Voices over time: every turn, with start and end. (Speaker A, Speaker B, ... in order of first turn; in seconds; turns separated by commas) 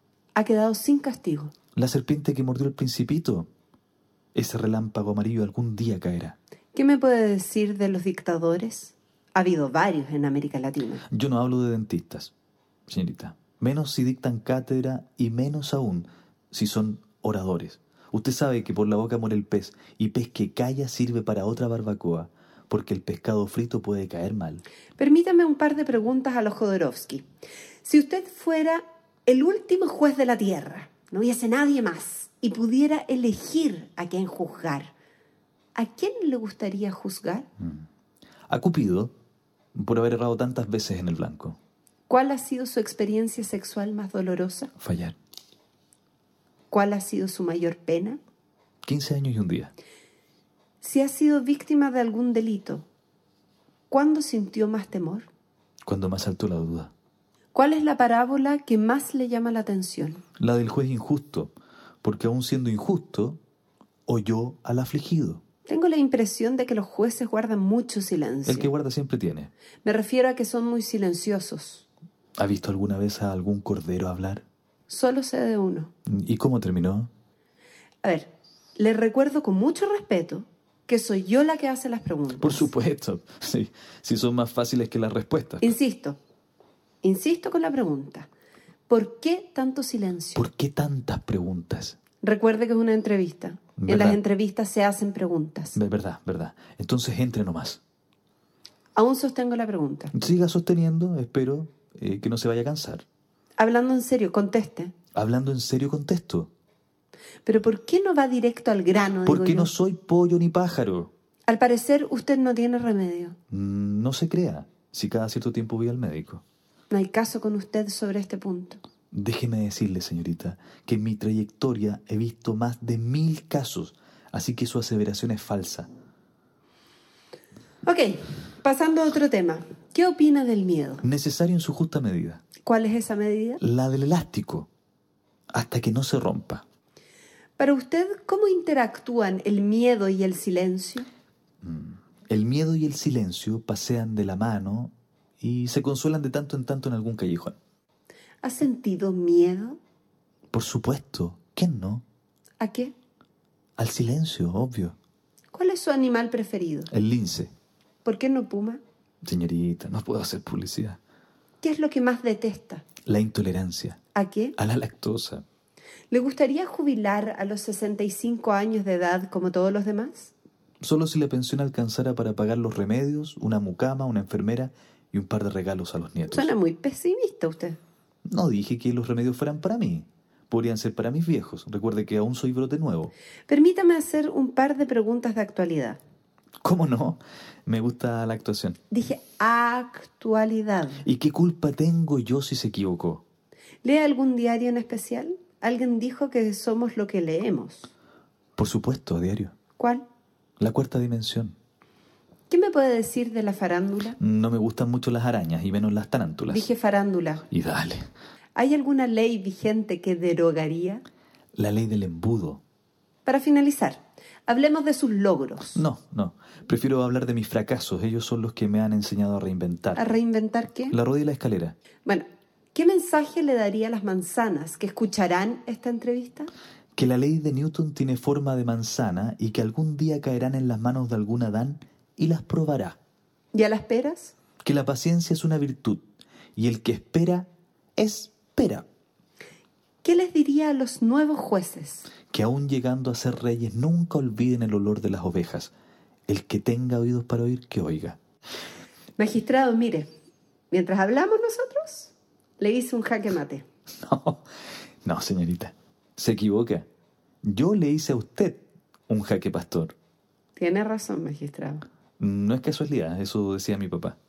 Speaker A: 0.3-1.5, Speaker B: 1.8-3.5, Speaker B: 4.3-6.4, Speaker A: 6.7-11.0, Speaker B: 11.1-12.3, Speaker B: 12.9-24.6, Speaker A: 25.0-27.2, Speaker A: 27.8-34.9, Speaker A: 35.7-37.5, Speaker B: 37.6-37.8, Speaker B: 38.5-39.1, Speaker B: 39.7-41.6, Speaker A: 42.1-44.7, Speaker B: 44.8-45.1, Speaker A: 46.7-48.2, Speaker B: 48.8-49.7, Speaker A: 50.8-52.9, Speaker A: 53.9-55.3, Speaker B: 55.8-56.9, Speaker A: 57.5-60.2, Speaker B: 60.4-61.5, Speaker B: 62.0-63.4, Speaker B: 64.1-65.4, Speaker A: 65.7-68.7, Speaker B: 68.5-69.5, Speaker A: 69.8-71.9, Speaker B: 72.4-74.4, Speaker A: 74.9-75.9, Speaker B: 76.0-77.1, Speaker A: 78.0-82.7, Speaker B: 82.4-85.7, Speaker A: 85.6-86.2, Speaker A: 87.0-88.3, Speaker A: 88.9-90.5, Speaker B: 90.4-92.0, Speaker A: 92.2-95.8, Speaker B: 93.8-94.2, Speaker B: 95.7-97.8, Speaker A: 98.9-100.1, Speaker B: 100.1-103.0, Speaker A: 103.6-104.9, Speaker B: 105.1-106.5, Speaker A: 107.5-109.7, Speaker B: 109.2-111.1, Speaker A: 111.5-113.3, Speaker B: 113.5-116.4, Speaker A: 116.9-118.8, Speaker B: 119.1-125.9, Speaker A: 127.8-131.1, Speaker B: 131.0-132.4, Speaker A: 132.6-133.6, Speaker B: 133.6-134.7, Speaker B: 135.5-136.6, Speaker A: 137.6-141.1, Speaker B: 141.6-147.6, Speaker A: 148.4-149.8, Speaker B: 150.5-152.0, Speaker A: 152.6-152.9, Speaker B: 153.8-154.9, Speaker A: 155.5-156.9, Speaker B: 156.9-157.5, Speaker A: 158.0-158.8, Speaker B: 159.2-161.0, Speaker A: 161.6-162.8, Speaker B: 163.1-164.0, Speaker A: 164.1-164.6, Speaker B: 164.6-165.4, Speaker A: 166.1-170.3, Speaker B: 170.8-176.5, Speaker A: 176.3-177.8, Speaker B: 178.3-183.1, Speaker A: 183.5-186.0, Speaker B: 186.6-188.8, Speaker A: 188.9-191.1, Speaker B: 191.0-193.2, Speaker A: 193.8-197.9, Speaker B: 198.6-199.5, Speaker A: 199.8-200.0, Speaker B: 200.6-201.5, Speaker A: 202.5-204.2, Speaker B: 204.2-206.7, Speaker A: 206.5-207.4, Speaker B: 207.5-208.1, Speaker A: 208.6-211.0, Speaker B: 211.6-212.6, Speaker A: 213.2-215.8, Speaker B: 215.7-220.1, Speaker A: 219.9-221.0, Speaker B: 220.9-221.7, Speaker A: 222.0-226.5, Speaker B: 226.9-233.0, Speaker A: 233.5-234.3, Speaker B: 234.6-236.0, Speaker B: 236.6-238.8, Speaker A: 240.0-242.1, Speaker B: 242.3-245.7, Speaker B: 246.3-248.2, Speaker A: 249.2-250.1, Speaker A: 250.7-253.6, Speaker B: 254.0-254.4, Speaker B: 255.0-256.8, Speaker B: 257.4-259.9, Speaker A: 260.6-261.9, Speaker B: 262.2-264.2